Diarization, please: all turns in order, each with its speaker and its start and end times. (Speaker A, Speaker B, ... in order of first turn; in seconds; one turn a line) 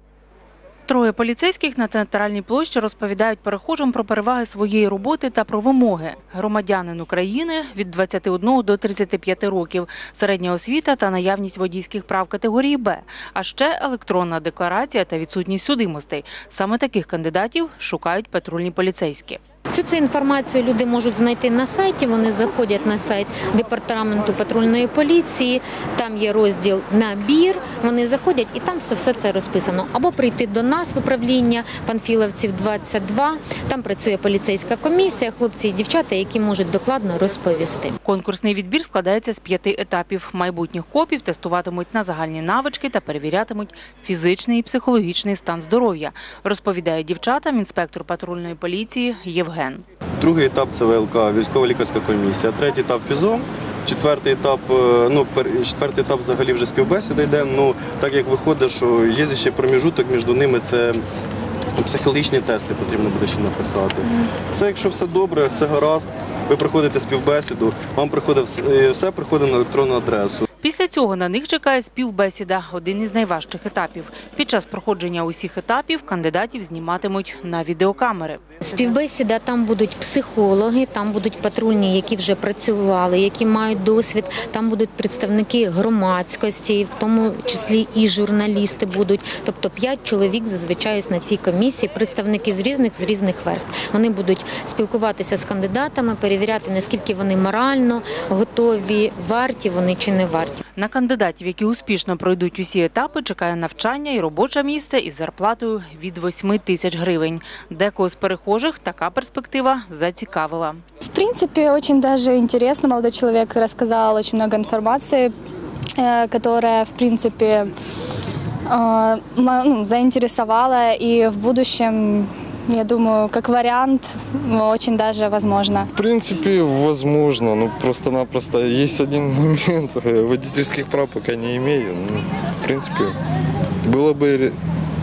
Speaker A: 0.9-19.4
Speaker B: 19.7-38.0
Speaker A: 38.0-49.8
Speaker C: 50.2-61.0
Speaker C: 61.8-70.5
Speaker A: 70.6-78.4
Speaker B: 78.6-100.6
Speaker A: 100.8-110.8
Speaker D: 111.1-115.3
Speaker D: 116.0-117.7
Speaker D: 118.7-125.9
Speaker E: 125.9-133.1
Speaker E: 133.8-134.5